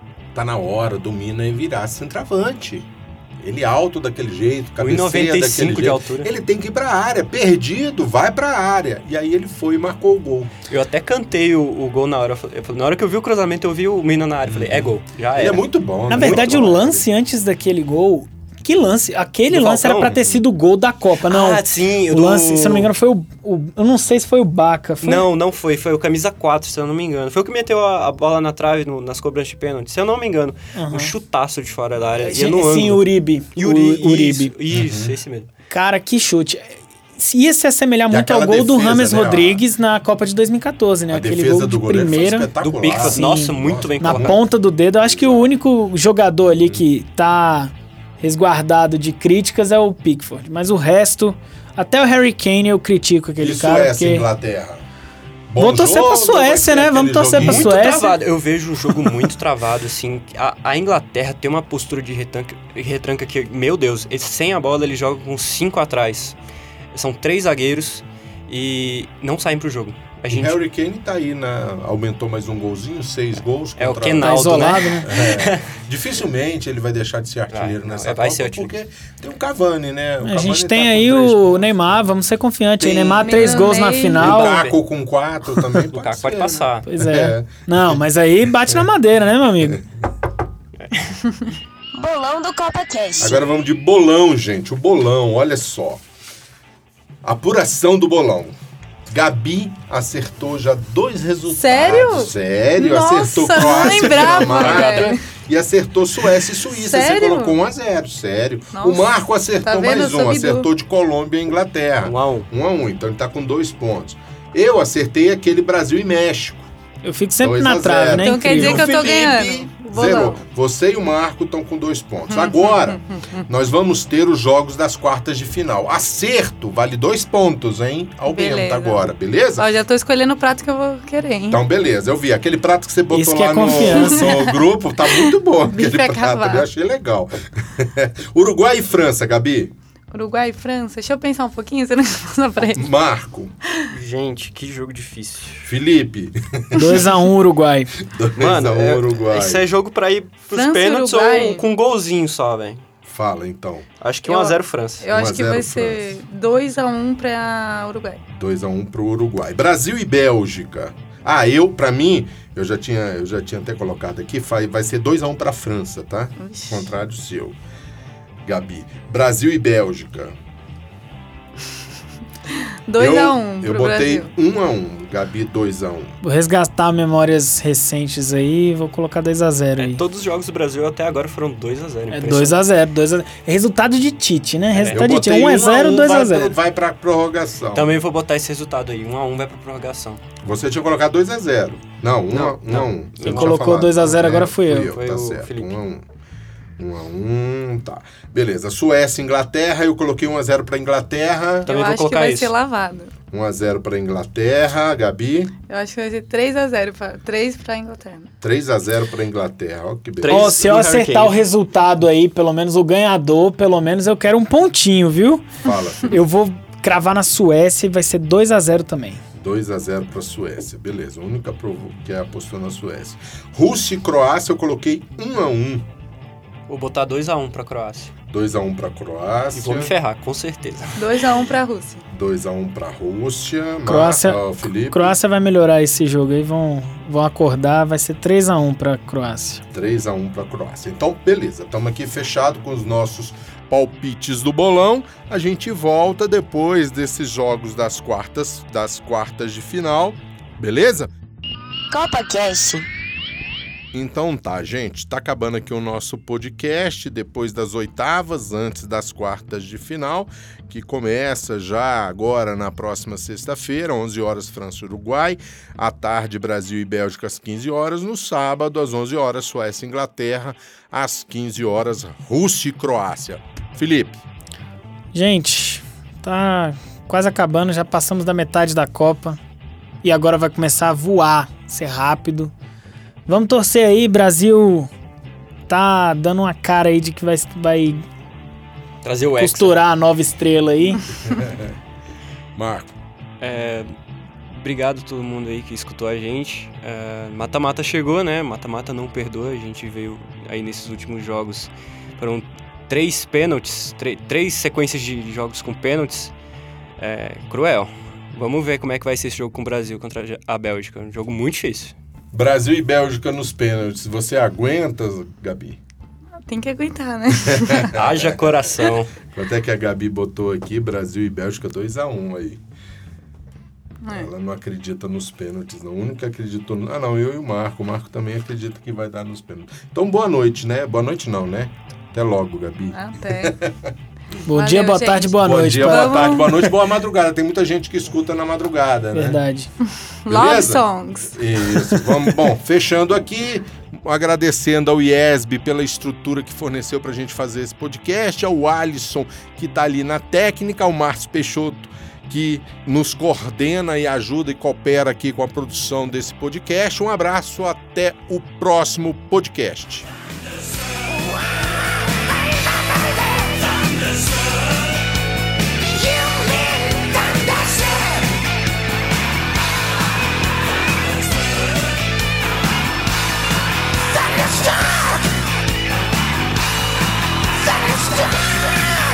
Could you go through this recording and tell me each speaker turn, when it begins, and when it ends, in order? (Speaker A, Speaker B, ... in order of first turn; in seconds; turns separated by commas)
Speaker A: 0.3-10.5, Speaker B: 4.8-6.3, Speaker B: 10.7-15.6, Speaker A: 14.5-17.1, Speaker C: 16.1-25.3, Speaker B: 19.5-20.2, Speaker A: 20.1-20.4, Speaker B: 21.3-22.9, Speaker B: 25.0-35.5, Speaker C: 30.8-31.1, Speaker C: 32.2-34.5, Speaker A: 34.7-35.1, Speaker C: 35.7-54.3, Speaker A: 38.1-39.6, Speaker A: 41.1-44.4, Speaker B: 42.6-44.4, Speaker A: 45.0-45.5, Speaker A: 53.4-54.8, Speaker A: 55.5-57.9, Speaker C: 55.6-58.2, Speaker B: 57.4-66.4, Speaker B: 66.9-70.6, Speaker A: 70.3-82.0, Speaker B: 73.8-75.7, Speaker C: 74.2-75.1, Speaker B: 77.5-78.7, Speaker C: 80.2-84.6, Speaker B: 82.8-84.8, Speaker D: 83.2-84.3, Speaker A: 84.2-88.0, Speaker B: 85.6-86.9, Speaker C: 86.9-89.8, Speaker E: 92.0-93.4, Speaker A: 93.2-96.0, Speaker A: 97.2-98.5, Speaker A: 99.1-116.7, Speaker D: 101.5-105.2, Speaker B: 103.6-105.2, Speaker D: 106.7-107.6, Speaker D: 108.7-109.1, Speaker D: 109.6-110.7, Speaker B: 112.0-112.5, Speaker C: 117.0-119.0, Speaker A: 117.4-129.7, Speaker D: 118.2-120.4, Speaker D: 122.3-123.4, Speaker D: 128.3-131.6, Speaker A: 131.5-139.7, Speaker C: 133.1-134.3, Speaker D: 134.0-136.7, Speaker D: 140.1-142.9, Speaker A: 142.7-143.5, Speaker B: 143.9-145.7, Speaker A: 145.6-147.1, Speaker C: 146.8-147.9, Speaker A: 148.0-149.7, Speaker B: 148.4-152.8, Speaker D: 150.5-151.7, Speaker A: 153.1-153.9, Speaker B: 154.0-155.1, Speaker D: 154.3-158.2, Speaker A: 155.1-156.2, Speaker A: 158.3-167.6, Speaker D: 166.4-166.9, Speaker A: 168.4-170.4, Speaker D: 172.5-174.3, Speaker A: 173.0-176.2, Speaker C: 176.2-180.0, Speaker B: 179.8-182.6, Speaker C: 182.1-186.6, Speaker B: 184.7-185.1, Speaker A: 184.9-188.0, Speaker B: 187.7-190.2, Speaker A: 190.4-196.0, Speaker B: 192.3-195.8, Speaker C: 193.2-194.9, Speaker A: 196.8-201.7, Speaker D: 201.7-203.1, Speaker B: 201.7-202.5, Speaker A: 203.3-205.5, Speaker D: 205.7-208.3, Speaker A: 208.4-210.9, Speaker B: 210.2-211.4, Speaker C: 210.3-215.5, Speaker A: 215.6-216.2, Speaker C: 216.1-219.2, Speaker A: 219.4-225.9, Speaker B: 226.7-228.1, Speaker A: 228.3-229.9, Speaker B: 229.5-231.3, Speaker D: 231.0-232.1, Speaker A: 232.1-235.2, Speaker C: 233.8-239.6, Speaker A: 239.7-251.1, Speaker E: 251.9-252.8, Speaker A: 253.9-274.2, Speaker C: 275.1-279.4, Speaker C: 280.0-282.5, Speaker C: 283.3-284.9, Speaker C: 285.7-288.0, Speaker B: 289.0-289.8, Speaker C: 289.4-291.0, Speaker A: 291.2-291.8, Speaker A: 292.6-292.9, Speaker B: 293.4-293.9, Speaker B: 294.5-306.3, Speaker B: 307.0-311.9, Speaker A: 312.3-315.8, Speaker D: 316.4-318.0, Speaker A: 317.4-322.6, Speaker B: 317.9-319.1, Speaker D: 324.0-324.3, Speaker A: 324.1-333.9, Speaker D: 332.9-333.6, Speaker C: 334.5-336.6, Speaker D: 334.5-336.5, Speaker A: 335.4-339.4, Speaker C: 339.1-339.7, Speaker D: 340.2-342.1, Speaker A: 340.3-360.1, Speaker E: 365.9-368.2, Speaker E: 374.1-375.2, Speaker E: 377.7-378.4